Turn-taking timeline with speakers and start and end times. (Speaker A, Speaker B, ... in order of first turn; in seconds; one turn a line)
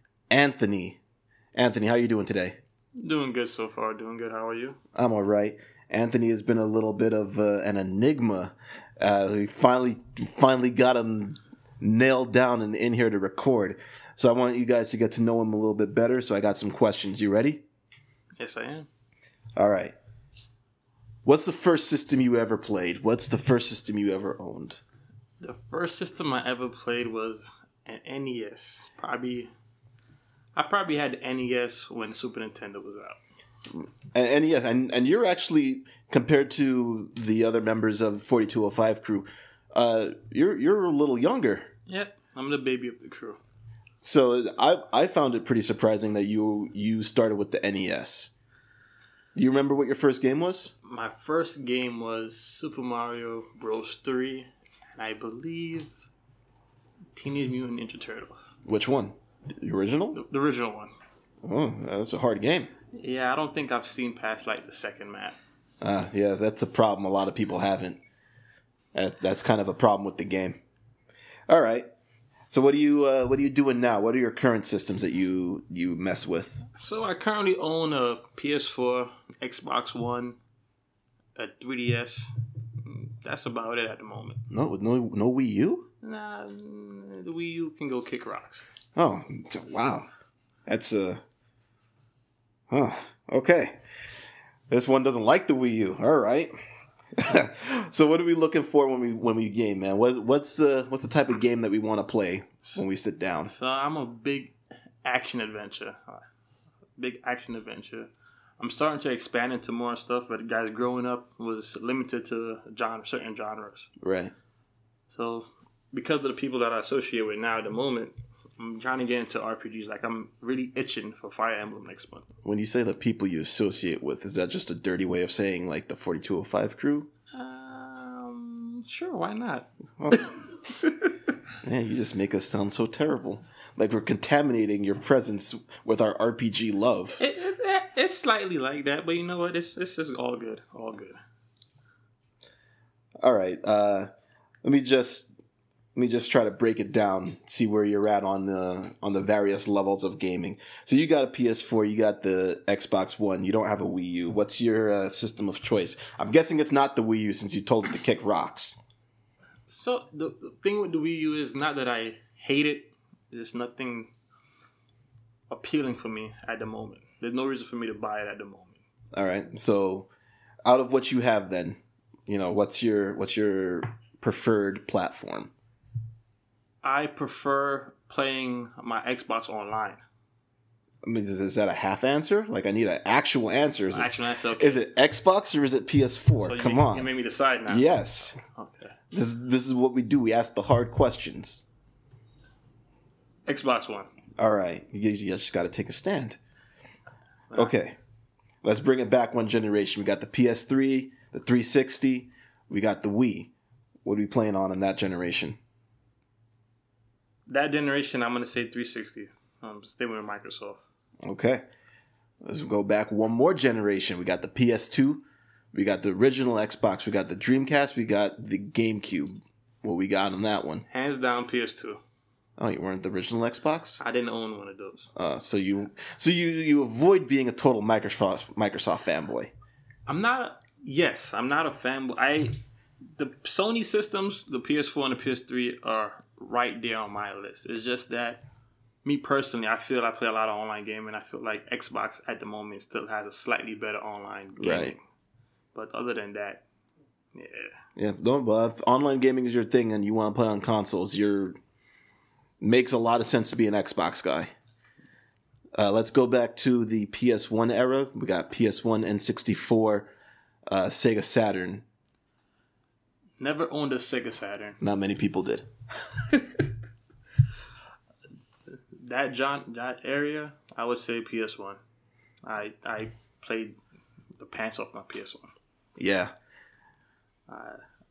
Speaker A: 0.3-1.0
Speaker A: 1.5-2.6
Speaker B: 3.0-4.8
Speaker A: 4.9-17.6
Speaker B: 18.4-18.9
Speaker A: 19.6-19.9
Speaker A: 21.2-24.8
Speaker B: 25.4-29.5
Speaker B: 30.6-33.2
Speaker A: 33.7-41.7
Speaker B: 41.9-43.4
Speaker A: 44.0-48.3
Speaker A: 49.3-50.7
Speaker B: 50.8-55.9
Speaker B: 57.1-58.4
Speaker A: 58.6-60.2
Speaker B: 60.1-60.9
Speaker A: 61.4-62.7
Speaker B: 62.9-65.4
Speaker A: 65.8-68.0
Speaker A: 68.9-70.6
Speaker A: 71.5-71.9
Speaker A: 72.5-76.6
Speaker B: 76.7-80.4
Speaker B: 81.3-84.4
Speaker A: 84.5-85.9
Speaker B: 86.0-88.6
Speaker A: 89.0-90.1
Speaker A: 90.7-91.2
Speaker A: 92.7-93.8
Speaker A: 94.7-96.5
Speaker A: 97.2-103.5
Speaker B: 103.5-106.2
Speaker B: 107.0-113.9
Speaker A: 114.0-114.3
Speaker B: 115.1-122.2
Speaker A: 122.4-127.1
Speaker B: 127.3-131.1
Speaker A: 131.6-137.2
Speaker B: 137.2-141.2
Speaker A: 143.2-144.1
Speaker A: 144.6-145.3
Speaker A: 145.9-158.8
Speaker B: 159.7-164.1
Speaker B: 165.5-168.8
Speaker A: 169.1-170.1
Speaker A: 170.6-175.5
Speaker B: 176.8-180.0
Speaker A: 181.0-187.1
Speaker B: 183.9-184.8
Speaker B: 186.4-187.9
Speaker A: 187.7-188.4
Speaker B: 188.4-188.9
Speaker A: 189.1-191.7
Speaker B: 193.4-194.1
Speaker A: 194.4-196.4
Speaker A: 197.5-197.9
Speaker A: 198.6-203.5
Speaker A: 204.0-205.6
Speaker B: 207.5-210.8
Speaker A: 211.2-211.6
Speaker A: 212.4-220.8
Speaker B: 220.9-222.0
Speaker A: 222.6-224.0
Speaker B: 224.0-225.1
Speaker A: 225.2-229.5
Speaker B: 230.1-232.5
Speaker B: 233.2-238.4
Speaker B: 239.0-245.0
Speaker A: 244.6-244.9
Speaker B: 245.7-246.6
Speaker B: 247.3-247.8
Speaker A: 248.0-251.6
Speaker A: 252.6-254.5
Speaker A: 255.8-260.1
Speaker A: 260.7-261.8
Speaker B: 263.4-264.8
Speaker A: 264.8-265.7
Speaker B: 266.3-266.7
Speaker B: 268.7-271.8
Speaker B: 272.4-273.8
Speaker B: 274.4-275.5
Speaker A: 276.0-276.3
Speaker B: 277.5-277.8